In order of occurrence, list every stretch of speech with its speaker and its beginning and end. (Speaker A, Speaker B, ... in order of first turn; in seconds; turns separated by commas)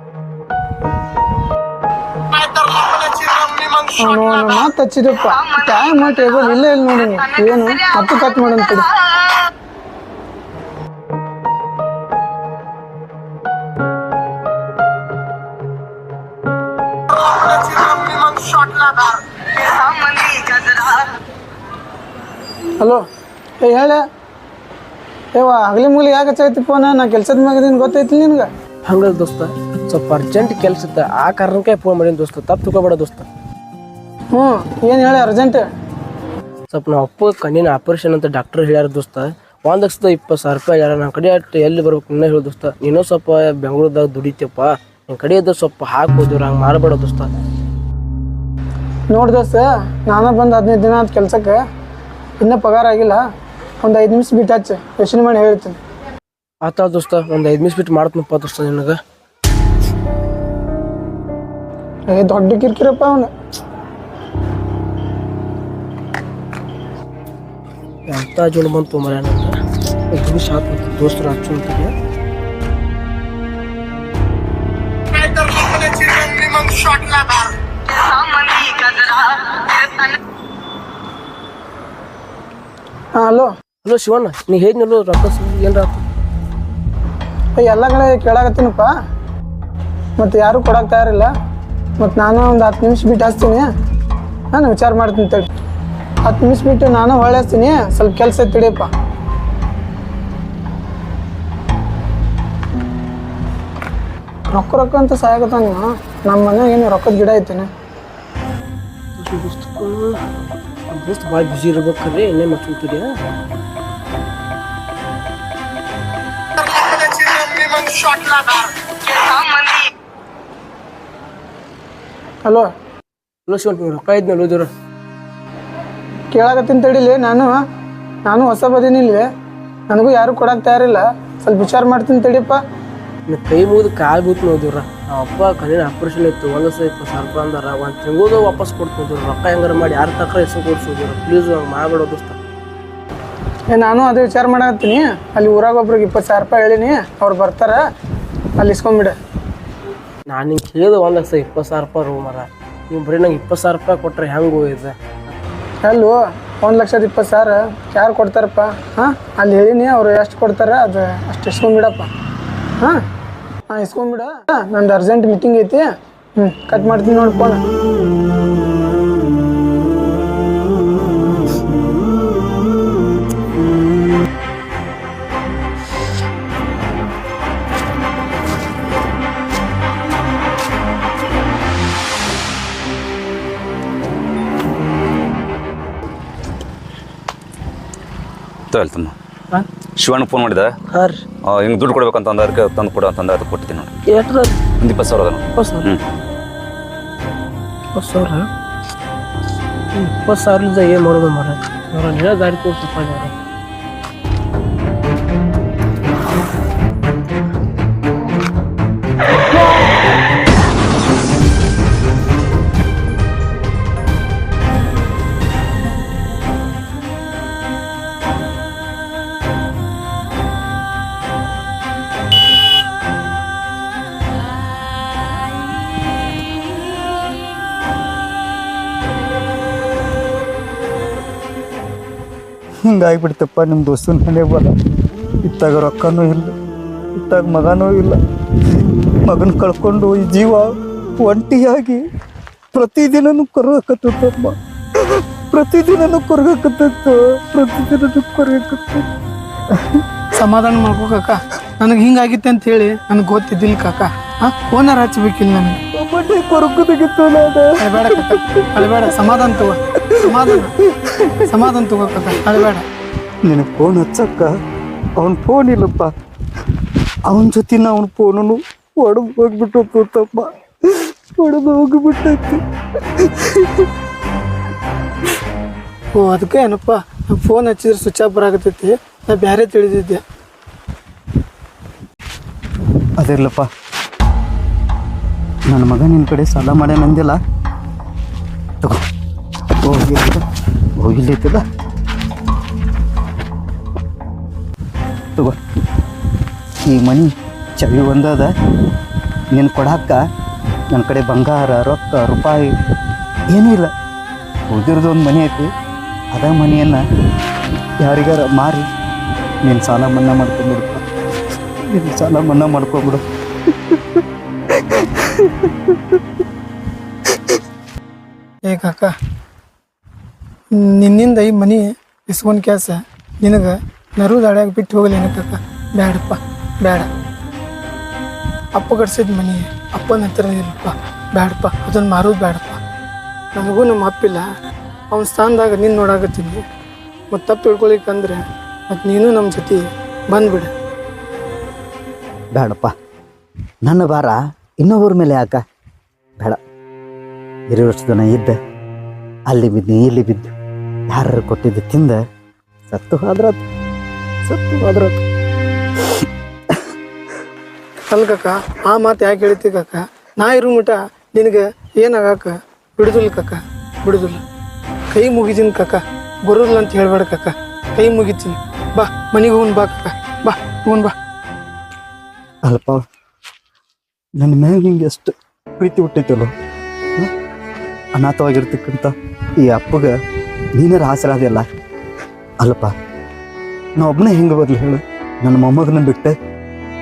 Speaker A: 4.0-8.9, Speaker A: 23.6-24.0, Speaker A: 25.3-28.5, Speaker B: 28.8-33.3, Speaker A: 34.3-35.7, Speaker B: 36.7-47.3, Speaker A: 49.1-51.6, Speaker A: 52.4-53.2, Speaker A: 53.8-55.8, Speaker B: 56.6-59.0, Speaker A: 62.1-63.3, Speaker B: 68.1-69.5, Speaker B: 70.1-71.9, Speaker A: 83.2-83.5, Speaker B: 83.8-86.0, Speaker A: 87.5-88.9, Speaker A: 90.2-91.3, Speaker A: 92.0-93.7, Speaker A: 94.5-95.5, Speaker A: 96.2-98.9, Speaker A: 104.5-107.7, Speaker B: 109.2-110.2, Speaker B: 110.9-113.1, Speaker A: 122.4-122.7, Speaker B: 123.5-124.7, Speaker A: 126.3-127.6, Speaker A: 128.2-129.3, Speaker A: 129.9-132.6, Speaker B: 133.3-142.4, Speaker A: 143.7-147.8, Speaker A: 148.6-149.2, Speaker B: 150.3-155.3, Speaker A: 155.8-162.1, Speaker A: 163.7-167.6, Speaker C: 188.7-189.1, Speaker C: 190.0-190.7, Speaker B: 190.9-191.2, Speaker C: 191.5-193.9, Speaker B: 194.1-194.6, Speaker C: 194.8-196.0, Speaker B: 195.6-195.9, Speaker B: 197.9-198.5, Speaker B: 199.9-203.3, Speaker D: 232.8-234.7, Speaker D: 235.4-236.5, Speaker D: 237.1-238.2, Speaker D: 239.2-242.0, Speaker D: 242.7-249.1, Speaker D: 249.7-250.0, Speaker A: 250.3-255.8, Speaker D: 255.9-259.1, Speaker A: 257.8-260.7, Speaker D: 260.1-261.6, Speaker A: 261.5-262.8, Speaker D: 263.4-264.5, Speaker D: 265.2-266.1, Speaker D: 267.3-272.6, Speaker D: 273.1-273.9, Speaker A: 276.1-280.2, Speaker D: 283.2-283.7, Speaker D: 285.7-287.4, Speaker D: 289.8-290.4, Speaker D: 291.0-291.6, Speaker D: 296.9-298.5, Speaker D: 299.5-300.2, Speaker D: 300.9-302.7, Speaker D: 303.5-303.9, Speaker D: 304.7-305.7, Speaker D: 306.3-307.0, Speaker D: 308.0-308.9, Speaker D: 309.6-311.0, Speaker D: 311.8-316.2, Speaker A: 318.7-319.1, Speaker A: 320.7-327.1, Speaker A: 328.7-332.8, Speaker A: 333.5-334.4, Speaker A: 335.1-336.6, Speaker A: 337.3-340.7, Speaker D: 342.5-342.9, Speaker D: 343.8-345.6, Speaker D: 347.7-348.6, Speaker D: 349.5-350.5, Speaker D: 351.1-352.2, Speaker D: 352.9-353.6, Speaker D: 354.4-355.2, Speaker D: 356.0-356.8, Speaker A: 358.1-364.4, Speaker A: 365.1-371.1, Speaker D: 372.6-373.0, Speaker D: 374.4-376.5, Speaker D: 378.1-380.1, Speaker D: 380.8-381.6, Speaker D: 382.6-382.9, Speaker D: 384.0-386.3